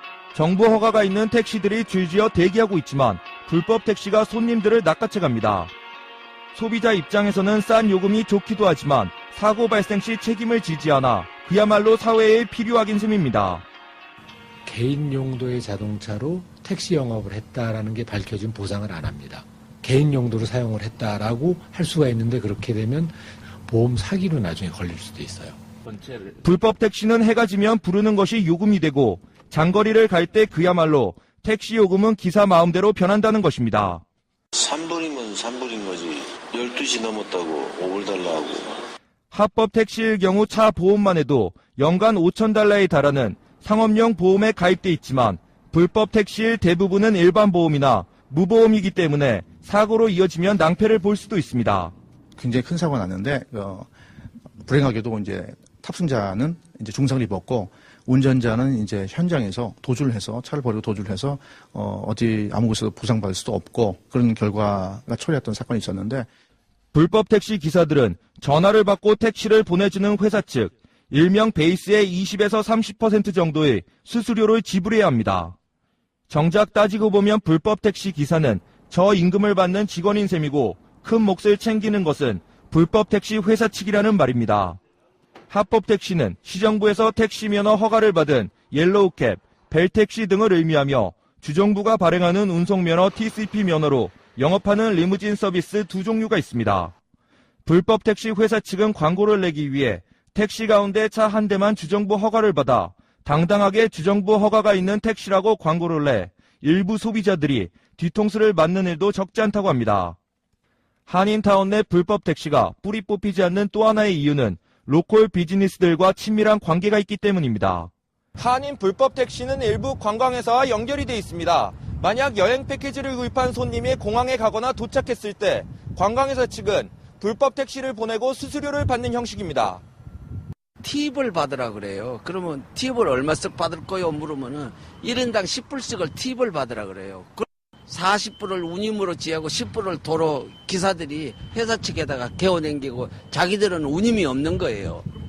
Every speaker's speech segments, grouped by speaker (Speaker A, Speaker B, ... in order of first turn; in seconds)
Speaker A: 0.3-5.7, 6.5-13.7, 26.4-34.0, 39.3-51.9, 66.9-75.5, 76.3-84.8, 85.5-96.9, 97.7-110.2, 111.1-129.8
Speaker B: 14.7-25.6
Speaker C: 34.6-38.8
Speaker D: 52.4-53.9, 54.6-66.3
Speaker E: 130.8-145.1